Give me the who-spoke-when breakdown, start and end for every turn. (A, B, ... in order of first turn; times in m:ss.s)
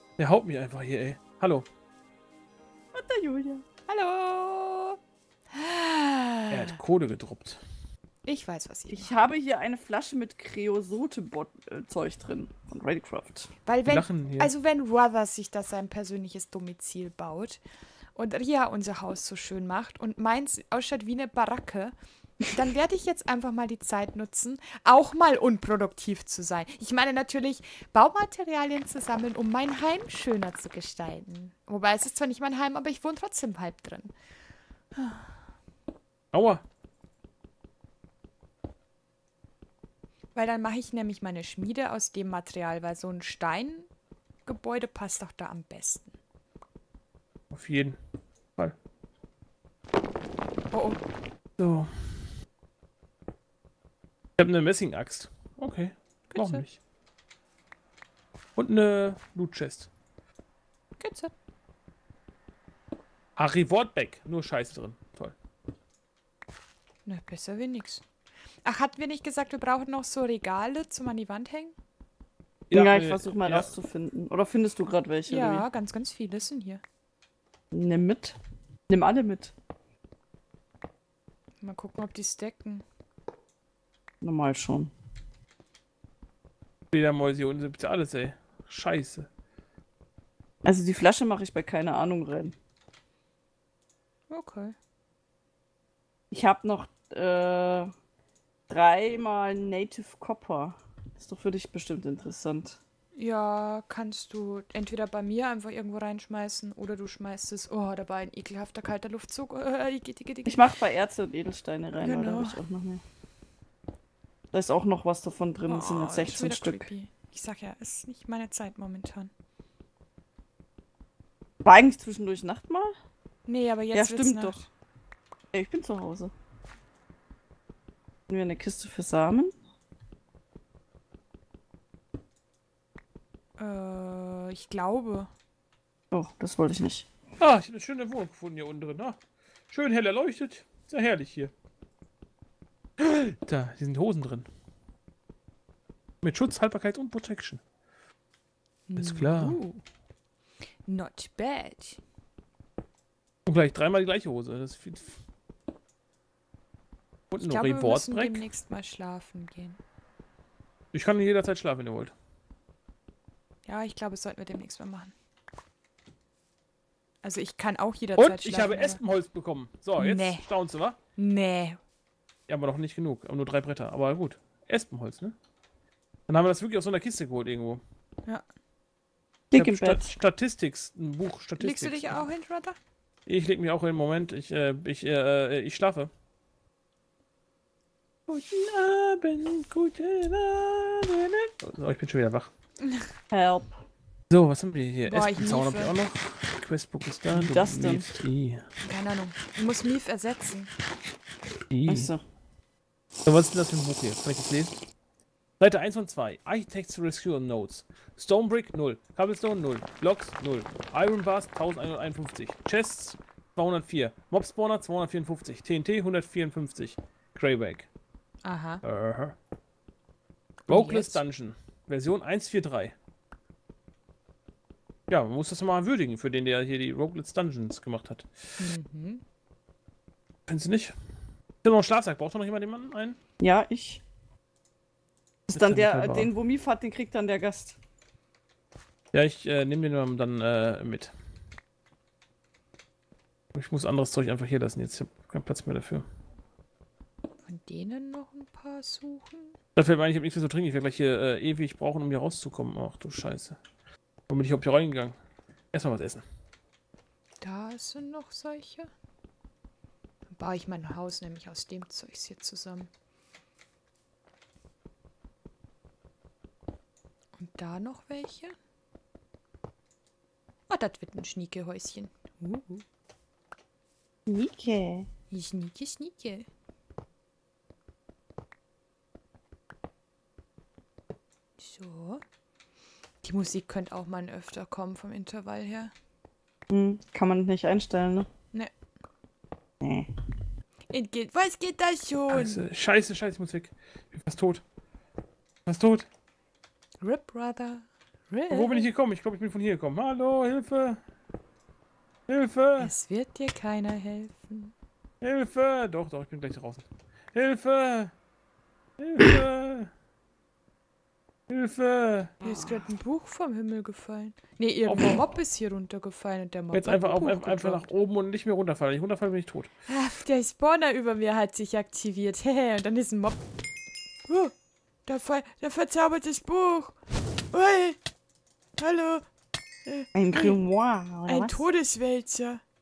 0:00.2-0:01.6 A
0:02.9-0:03.6 B
0:03.9-0:05.0 C
0:05.5-0:06.8 C
0:06.5-0:07.6 A
0:08.2-0:09.1 C
0:08.9-0:13.5 B
0:13.6-0:17.6 C
0:13.8-0:14.5 A
0:18.1-0:21.9 C
0:22.5-0:34.1 C
0:34.9-0:35.3 C
0:36.3-0:36.6 A
0:40.3-0:43.9 C
0:44.4-0:46.2 C
0:47.5-0:48.0 A
0:50.7-0:51.0 C
0:51.6-0:52.2 A
0:54.4-0:56.8 A
0:56.3-0:56.6 C
0:58.6-0:59.9 A
1:01.0-1:01.3 C
1:03.4-1:05.3 A
1:07.0-1:08.0 C
1:08.6-1:11.8 C
1:12.7-1:13.7 A
1:12.7-1:15.6 B
1:15.3-1:16.8 C
1:17.7-1:18.4 B
1:18.9-1:19.5 B
1:21.6-1:22.8 C
1:24.2-1:24.9 B
1:26.9-1:29.3 A
1:30.6-1:32.5 B
1:34.3-1:34.7 C
1:36.3-1:37.9 B
1:38.7-1:42.8 B
1:43.2-1:50.6 C
1:50.4-1:53.0 B
1:52.0-1:52.6 C
1:54.5-1:56.9 B
1:55.6-1:59.3 C
2:01.6-2:02.9 B
2:03.4-2:04.6 C
2:03.9-2:04.6 B
2:05.5-2:06.3 B
2:08.3-2:09.5 B
2:13.6-2:15.3 C
2:16.1-2:17.1 B
2:17.4-2:19.2 A
2:19.7-2:21.5 A
2:23.0-2:24.5 A
2:26.2-2:27.6 A
2:28.9-2:29.8 C
2:29.0-2:29.6 A
2:30.8-2:32.0 C
2:33.4-2:35.2 A
2:37.3-2:38.4 A
2:37.4-2:39.8 C
2:40.9-2:42.1 A
2:43.6-2:45.1 C
2:47.2-2:49.0 C
2:48.2-2:51.0 A
2:50.0-2:50.4 C
2:51.2-2:51.8 C
2:52.5-2:55.3 A
2:56.3-2:57.8 A
2:59.5-3:00.1 B
2:59.5-3:02.2 A
3:01.6-3:02.8 C
3:03.2-3:06.1 A
3:08.3-3:12.5 A
3:13.3-3:13.8 B
3:14.3-3:18.6 A
3:15.1-3:15.9 C
3:17.3-3:18.1 B
3:18.8-3:20.7 C
3:21.7-3:22.1 A
3:21.9-3:22.2 B
3:23.2-3:24.8 A
3:25.6-3:37.9 A
3:38.4-3:38.8 C
3:38.8-3:39.3 A
3:40.7-3:41.2 C
3:40.7-3:42.9 A
3:45.1-3:48.4 A
3:48.6-3:49.2 C
3:50.5-3:50.9 A
3:51.6-3:53.2 A
3:53.4-3:54.0 B
3:55.5-3:57.8 B
3:55.5-3:56.3 A
3:59.1-4:01.1 A
4:03.5-4:06.0 A
4:07.4-4:09.5 C
4:09.8-4:13.6 A
4:14.3-4:15.2 A
4:15.7-4:16.2 A
4:17.4-4:18.9 C
4:20.3-4:22.9 C
4:27.4-4:28.5 C
4:30.7-4:32.8 C
4:34.2-4:35.1 B
4:35.3-4:36.5 C
4:41.6-4:42.2 C
4:43.2-4:45.9 C
4:46.7-4:48.3 B
4:49.8-4:50.2 B
4:50.9-4:52.6 C
4:52.3-4:54.6 A
4:55.6-4:56.1 A
4:57.0-4:58.9 C
4:58.5-5:01.0 A
5:02.3-5:02.9 A
5:02.8-5:04.7 C
5:05.2-5:08.1 A
5:09.0-5:09.9 A
5:11.5-5:12.3 A
5:12.4-5:12.8 B
5:12.4-5:17.8 C
5:14.8-5:15.3 A
5:16.7-5:19.7 A
5:19.9-5:23.4 C
5:24.3-5:24.5 C
5:25.1-5:27.0 C
5:27.5-5:28.0 C
5:28.8-5:29.2 C
5:29.8-5:30.6 C
5:30.1-5:31.6 B
5:31.3-5:32.6 C